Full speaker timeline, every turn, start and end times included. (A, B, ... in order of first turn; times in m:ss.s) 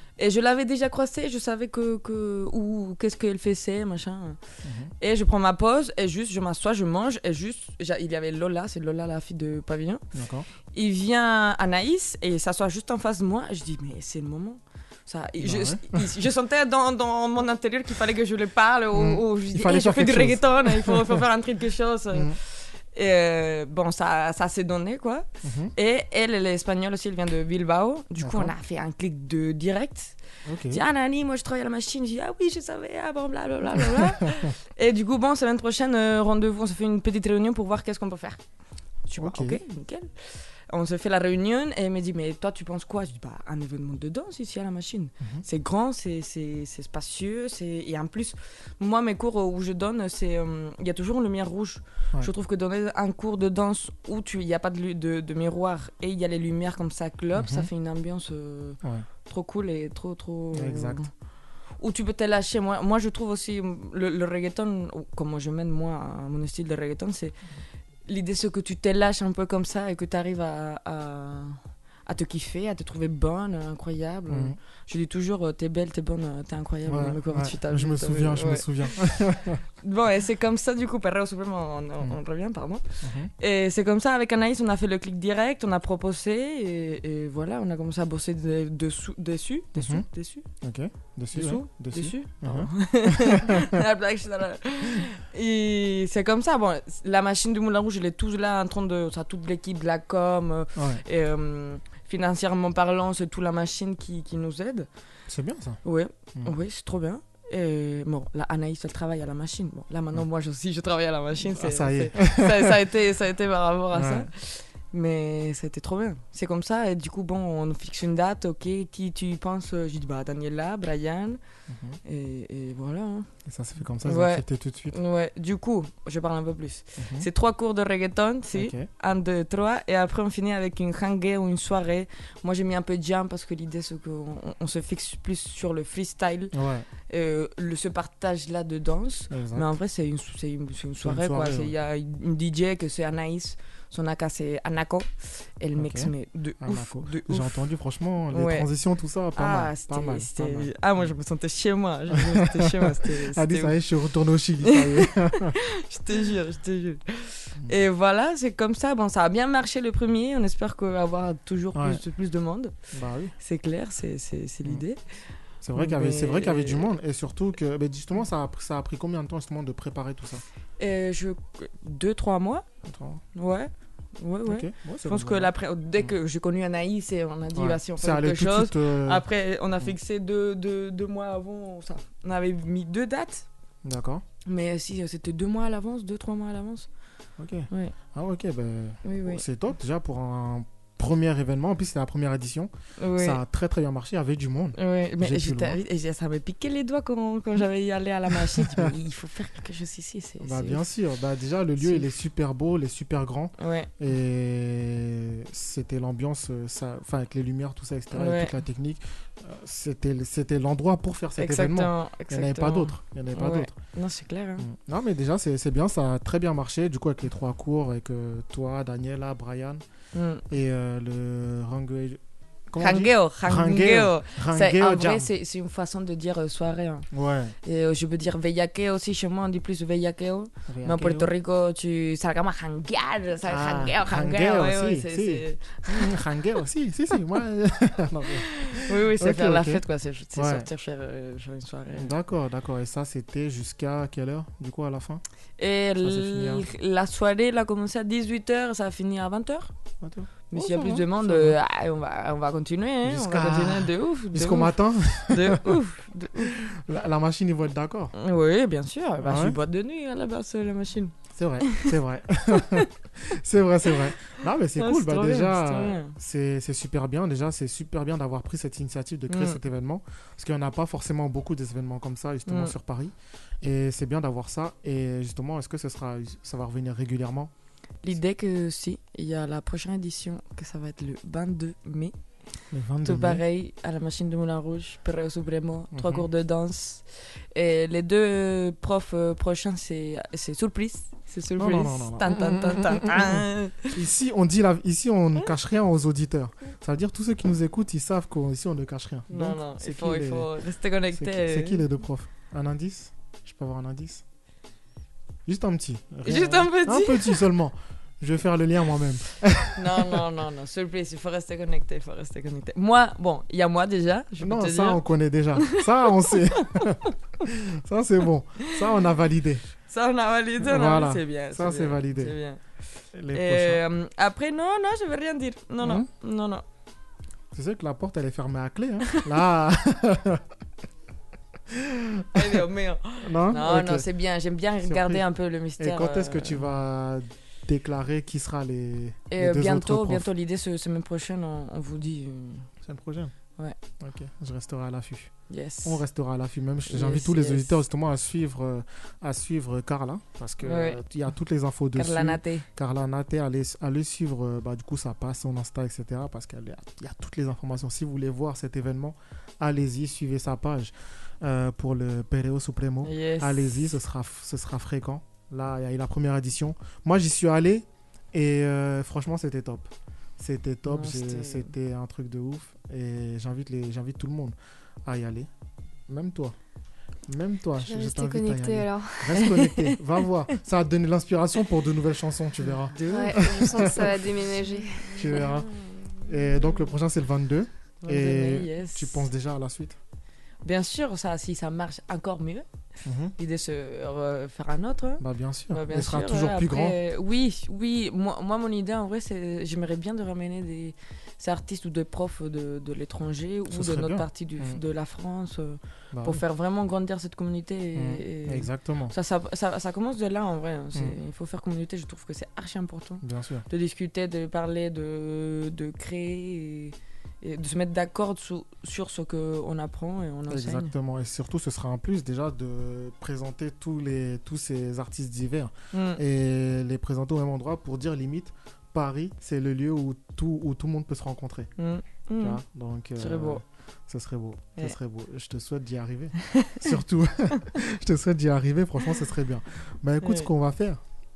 0:00.2-0:04.4 A
0:04.6-0:04.9 B
0:04.9-0:10.0 A
0:10.1-0:10.5 B
0:10.7-0:38.4 A
0:15.4-0:16.0 B
0:18.9-0:21.2 B
0:22.1-0:22.4 B
0:25.4-0:25.7 B
0:28.2-0:28.5 B
0:30.4-0:30.8 B
0:39.0-1:01.1 A
0:39.2-0:39.6 B
0:45.2-0:45.4 B
0:57.3-0:57.7 B
1:00.5-1:01.0 B
1:01.7-1:07.4 A
1:08.0-1:19.2 A
1:14.3-1:14.6 B
1:16.8-1:19.6 B
1:19.8-1:30.5 A
1:23.0-1:23.3 B
1:29.8-1:33.5 B
1:31.3-1:44.9 A
1:40.8-1:41.0 B
1:45.3-1:46.5 B
1:45.8-2:03.3 A
1:51.4-1:52.7 B
1:53.9-1:54.3 B
2:01.7-2:02.0 B
2:03.4-2:05.0 B
2:04.0-2:27.6 A
2:07.0-2:07.3 B
2:08.5-2:08.9 B
2:16.5-2:16.9 B
2:19.3-2:19.7 B
2:21.0-2:21.7 B
2:25.8-2:31.1 B
2:28.3-2:28.7 A
2:29.3-2:33.8 A
2:32.3-2:35.5 B
2:34.7-2:35.0 A
2:35.9-2:42.7 A
2:41.7-2:42.0 B
2:42.9-2:43.3 B
2:43.4-2:46.9 A
2:45.4-2:50.4 B
2:50.8-2:52.6 A
2:52.8-2:53.2 B
2:53.3-3:03.5 A
2:54.4-2:56.1 B
2:57.5-2:59.2 B
3:03.8-3:04.2 B
3:04.4-3:06.9 A
3:07.4-3:15.8 B
3:07.7-3:07.9 A
3:09.0-3:09.4 A
3:13.0-3:13.4 A
3:14.8-3:20.8 A
3:18.5-3:18.8 B
3:20.4-3:33.8 B
3:21.8-3:22.1 A
3:23.6-3:23.9 A
3:28.1-3:28.5 A
3:31.4-3:34.6 A
3:34.6-3:39.8 B
3:40.1-3:40.4 A
3:40.5-3:45.3 B
3:42.8-3:47.1 A
3:47.1-3:47.5 B
3:47.6-3:56.2 A
3:50.7-3:51.3 B
3:53.5-4:00.7 B
3:58.7-4:02.1 A
4:01.9-4:05.2 B
4:05.6-4:09.7 A
4:06.0-4:06.6 B
4:10.0-4:11.6 B
4:10.5-4:16.5 A
4:13.0-4:15.7 B
4:16.6-4:18.1 B
4:18.1-4:21.1 A
4:19.2-4:19.6 B
4:21.3-4:37.5 B
4:24.8-4:26.1 A
4:29.3-4:29.6 A
4:32.4-4:32.7 A
4:38.0-4:54.0 A
4:42.7-4:43.4 B
4:45.9-4:46.2 B
4:51.6-5:00.6 B
4:59.3-5:01.8 A
5:01.1-5:04.2 B
5:05.4-5:10.2 B
5:06.2-5:07.4 A
5:09.7-5:15.0 A
5:14.4-5:19.8 B
5:19.9-5:22.6 A
5:20.6-5:22.4 B
5:23.1-5:23.8 B
5:23.3-5:26.6 A
5:25.8-5:26.1 B
5:27.5-5:30.4 B
5:31.7-5:32.3 B
5:32.3-5:36.7 A
5:33.2-5:34.0 B
5:34.8-5:40.3 B
5:39.3-5:42.7 A
5:42.8-6:15.5 B
5:45.5-5:46.0 A
5:46.8-5:47.8 A
5:50.6-5:51.0 A
5:51.9-5:52.6 A
6:03.0-6:03.9 A
6:10.8-6:11.7 A
6:16.1-6:16.6 B
6:17.3-6:24.1 B
6:17.8-6:19.5 C
6:19.4-6:19.8 A
6:22.6-6:24.0 A
6:23.1-6:25.1 C
6:24.7-6:26.9 A
6:25.2-6:30.0 B
6:28.0-6:29.3 A
6:30.6-6:32.7 A
6:33.0-6:33.3 B
6:33.4-7:00.9 A
6:35.2-6:37.0 B
6:43.7-6:44.8 B
6:46.1-6:46.4 B
6:47.9-6:49.1 B
6:53.2-6:53.6 B
7:00.5-7:11.7 B
7:05.9-7:06.2 A
7:11.8-7:12.6 A
7:12.2-7:21.0 B
7:13.2-7:13.6 A
7:20.2-7:20.5 A